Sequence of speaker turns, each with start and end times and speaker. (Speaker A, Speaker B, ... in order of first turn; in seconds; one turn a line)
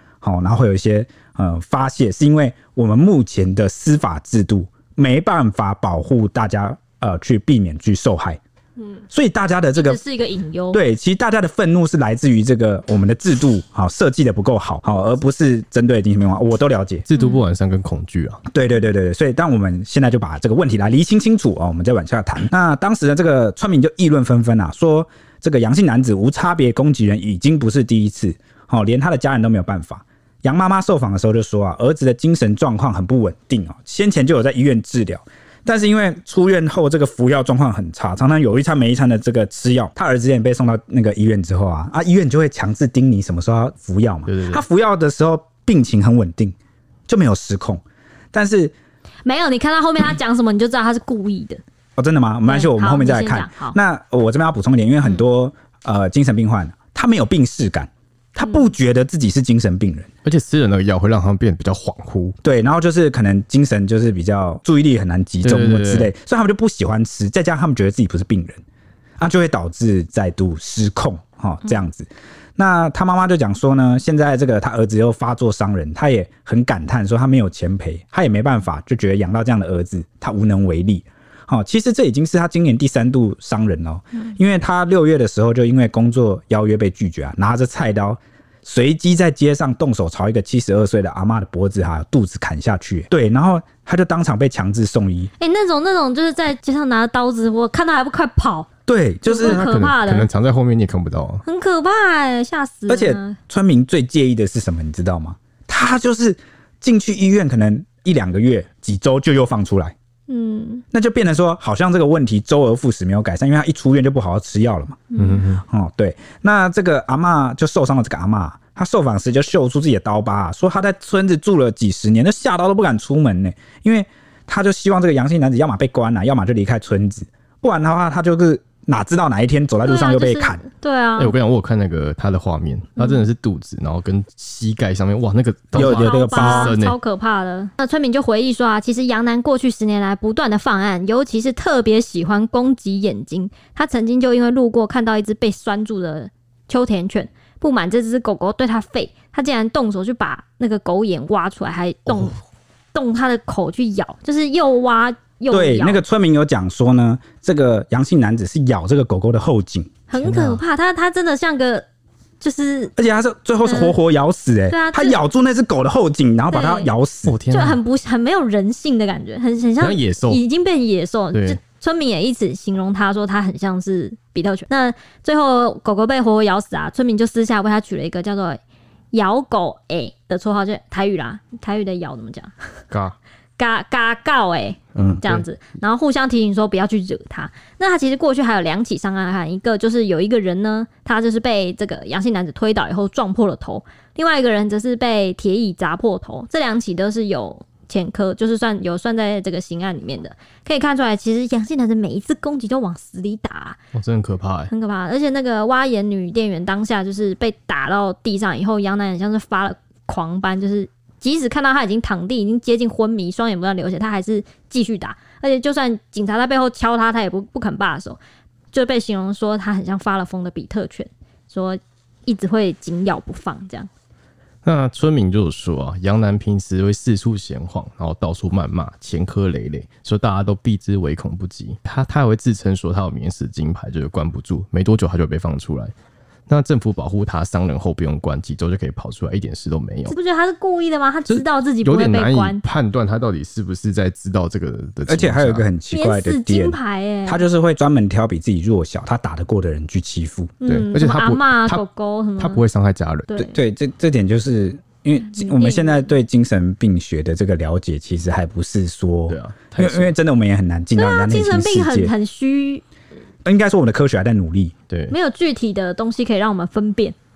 Speaker A: 0.2-8.4
Speaker A: 9.1-10.0
Speaker B: 9.7-10.8
Speaker A: 10.7-17.0
Speaker C: 17.1-18.4
Speaker A: 18.5-46.5
Speaker C: 44.2-44.6
Speaker A: 47.1-48.7
Speaker B: 49.2-51.6
Speaker A: 52.0-60.1
Speaker B: 52.5-53.8
Speaker C: 60.2-62.4
Speaker A: 62.4-68.6
Speaker C: 65.4-66.1
Speaker A: 69.2-95.3
Speaker B: 95.4-98.7
Speaker A: 98.9-99.6
Speaker B: 99.2-100.3
Speaker C: 99.4-101.4
Speaker B: 101.4-103.4
Speaker A: 102.9-109.9
Speaker B: 110.3-110.8
Speaker A: 110.9-115.0
Speaker B: 115.1-115.4
Speaker C: 115.2-115.6
Speaker A: 115.6-130.6
Speaker B: 129.8-131.3
Speaker C: 131.2-136.9
Speaker A: 135.7-136.7
Speaker B: 135.8-152.3
Speaker B: 152.9-156.0
Speaker A: 155.5-159.9
Speaker B: 160.1-161.8
Speaker C: 160.2-160.6
Speaker B: 162.4-162.9
Speaker A: 163.0-167.4
Speaker B: 163.6-163.9
Speaker B: 164.7-165.2
Speaker B: 166.5-166.9
Speaker C: 167.3-167.8
Speaker B: 167.5-178.6
Speaker C: 169.8-170.4
Speaker C: 171.3-171.6
Speaker B: 179.1-182.5
Speaker C: 182.9-183.2
Speaker B: 183.6-203.8
Speaker C: 185.0-185.4
Speaker C: 203.9-204.7
Speaker B: 204.7-218.2
Speaker B: 218.7-223.9
Speaker C: 224.6-235.9
Speaker C: 236.5-240.1
Speaker B: 240.1-242.6
Speaker C: 241.3-245.7
Speaker A: 245.1-250.5
Speaker B: 245.9-247.4
Speaker B: 250.6-252.6
Speaker C: 250.7-251.8
Speaker C: 252.4-253.3
Speaker B: 253.3-253.6
Speaker A: 253.4-262.1
Speaker B: 255.3-256.0
Speaker C: 259.3-260.1
Speaker B: 260.9-262.8
Speaker A: 263.4-264.7
Speaker C: 264.9-265.1
Speaker B: 265.1-267.1